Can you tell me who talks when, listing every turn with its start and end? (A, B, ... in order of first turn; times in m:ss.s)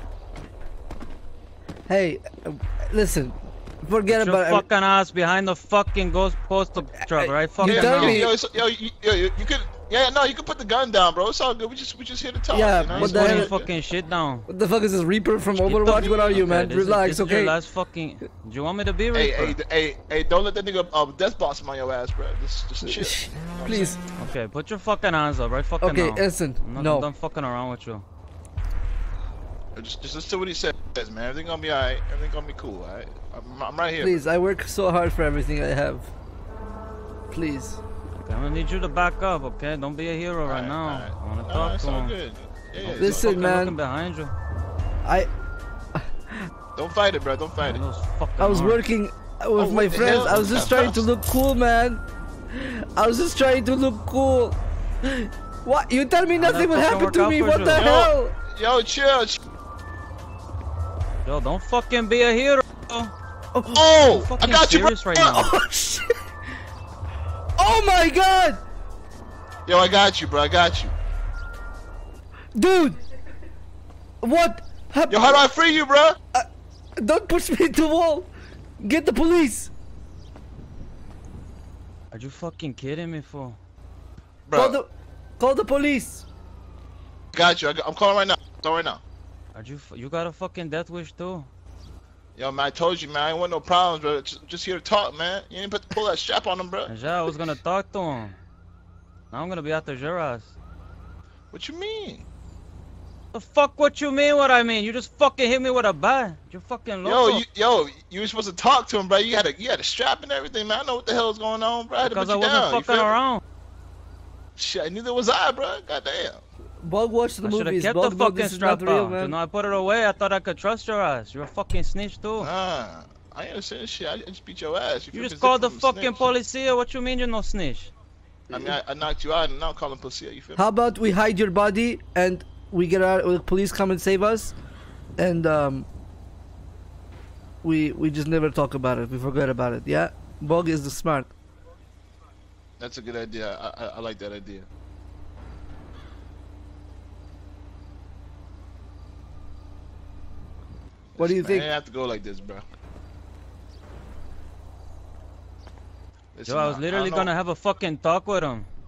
0:01.9-0:04.6 A
0:04.1-0:08.2 B
0:07.0-0:08.4 A
0:07.6-0:13.7 C
0:12.5-0:13.5 A
0:12.9-0:14.5 B
0:14.5-0:17.5 A
0:15.6-0:19.6 B
0:15.8-0:16.4 C
0:19.1-0:24.0 C
0:22.8-0:24.0 A
0:24.2-0:28.0 B
0:25.8-0:27.1 A
0:29.8-0:34.2 C
0:34.0-0:36.1 A
0:37.3-0:37.8 A
0:38.2-0:42.2 B
0:40.4-0:43.5 C
0:42.8-0:44.3 B
0:43.0-0:43.8 A
0:45.0-0:45.3 A
0:46.0-0:46.5 A
0:46.8-0:47.8 C
0:47.6-0:48.8 B
0:48.4-0:58.4 A
0:49.6-0:51.1 C
0:50.3-0:50.7 B
0:56.4-0:57.9 B
0:57.8-0:59.4 C
1:01.2-1:03.1 B
1:03.6-1:03.8 A
1:03.7-1:05.4 C
1:04.1-1:05.5 B
1:05.3-1:06.2 A
1:07.6-1:08.6 A
1:09.7-1:10.9 C
1:12.6-1:13.0 A
1:14.2-1:15.5 A
1:15.1-1:16.2 C
1:17.0-1:18.3 A
1:18.8-1:19.7 A
1:22.1-1:23.6 B
1:24.5-1:24.8 C
1:24.6-1:26.2 A
1:27.3-1:29.0 C
1:29.6-1:31.5 B
1:32.4-1:36.9 C
1:36.9-1:38.4 B
1:39.3-1:40.5 B
1:41.5-1:42.2 C
1:43.3-1:47.4 B
1:47.0-1:53.2 C
1:52.0-1:53.4 B
1:54.6-1:56.4 C
1:56.8-1:59.3 A
1:57.4-2:02.5 B
2:02.4-2:06.3 C
2:05.1-2:07.9 B
2:08.5-2:10.6 C
2:10.6-2:14.6 A
2:15.2-2:15.9 A
2:17.6-2:21.3 A
2:22.8-2:24.7 C
2:31.2-2:32.6 C
2:31.2-2:31.7 A
2:36.4-2:37.3 C
2:36.5-2:38.7 B